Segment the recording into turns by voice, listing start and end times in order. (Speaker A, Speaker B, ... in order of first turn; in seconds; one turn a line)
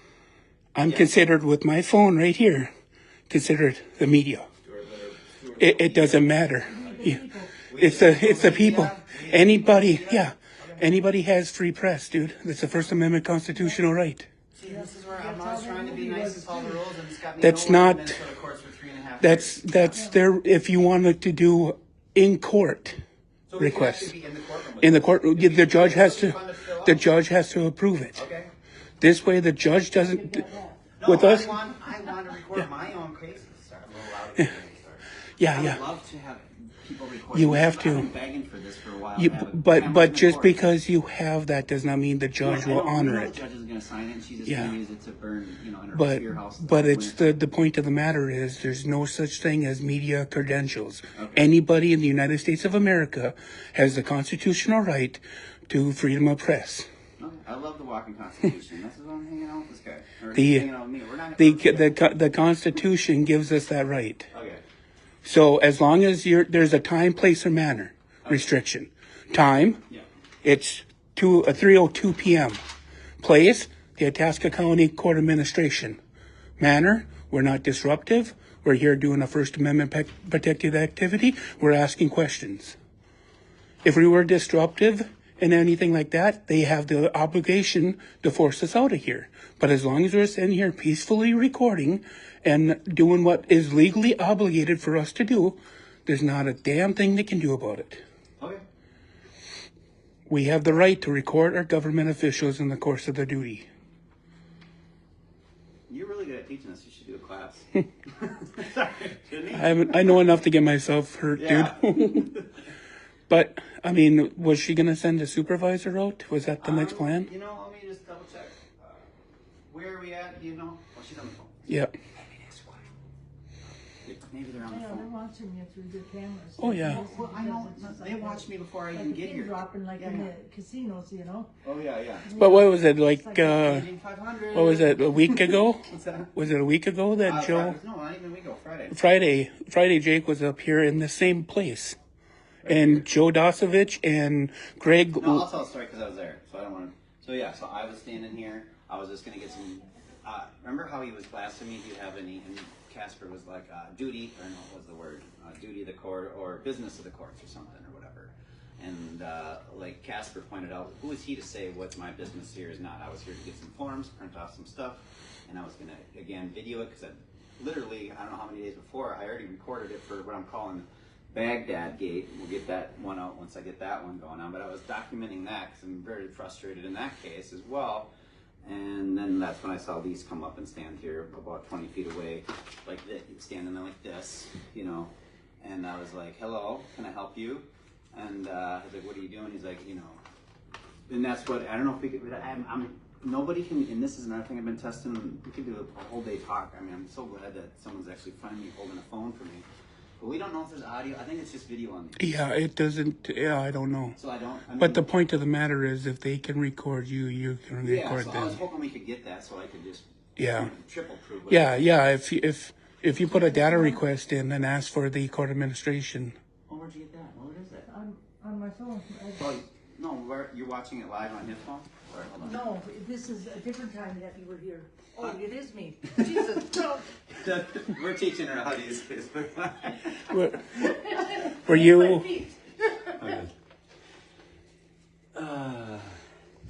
Speaker A: 0.8-2.7
Speaker B: 0.8-1.1
Speaker A: 3.3-4.5
Speaker B: 4.6-7.0
Speaker A: 5.6-7.2
Speaker C: 6.7-7.6
Speaker B: 7.7-10.8
Speaker A: 7.7-14.3
Speaker C: 13.5-13.8
Speaker B: 14.5-20.0
Speaker C: 14.6-16.8
Speaker A: 17.4-18.2
Speaker A: 19.2-23.0
Speaker B: 23.5-27.1
Speaker A: 23.6-24.1
Speaker A: 24.8-28.2
Speaker B: 28.1-28.5
Speaker A: 29.0-30.5
Speaker C: 30.0-30.8
Speaker B: 31.0-40.6
Speaker A: 31.1-31.6
Speaker A: 35.4-35.8
Speaker A: 37.3-38.1
Speaker A: 39.2-43.4
Speaker B: 42.4-47.3
Speaker A: 44.4-44.8
Speaker A: 45.9-56.9
Speaker B: 51.1-51.5
Speaker B: 57.2-62.0
Speaker A: 60.3-60.7
Speaker A: 61.4-64.3
Speaker B: 64.3-64.6
Speaker A: 65.2-69.8
Speaker A: 70.4-72.6
Speaker A: 73.2-76.0
Speaker A: 76.6-82.8
Speaker A: 83.8-98.0
Speaker B: 98.4-98.6
Speaker A: 100.3-103.7
Speaker B: 105.9-109.7
Speaker A: 109.5-112.3
Speaker B: 111.4-112.5
Speaker A: 113.3-117.3
Speaker B: 116.6-119.0
Speaker B: 119.7-122.9
Speaker B: 124.0-125.1
Speaker C: 124.6-131.5
Speaker A: 126.6-127.0
Speaker B: 126.8-130.3
Speaker B: 131.6-132.3
Speaker C: 132.2-133.6
Speaker A: 132.4-133.9
Speaker B: 133.5-136.3
Speaker A: 134.5-137.8
Speaker B: 137.2-139.0
Speaker A: 138.9-142.0
Speaker B: 142.6-143.1
Speaker A: 142.7-145.4
Speaker B: 145.2-178.1
Speaker B: 178.6-190.2
Speaker B: 191.1-199.7
Speaker B: 200.2-202.4
Speaker A: 202.2-204.2
Speaker B: 204.2-205.1
Speaker A: 204.8-208.6
Speaker B: 207.8-211.9
Speaker A: 210.4-210.7
Speaker A: 211.5-216.3
Speaker C: 213.3-214.0
Speaker B: 216.7-217.9
Speaker C: 217.9-219.4
Speaker B: 219.4-222.6
Speaker C: 222.4-227.1
Speaker B: 226.1-226.6
Speaker B: 227.3-231.0
Speaker A: 230.3-230.8
Speaker A: 231.6-232.4
Speaker C: 231.7-232.5
Speaker B: 233.1-233.5
Speaker B: 235.3-236.2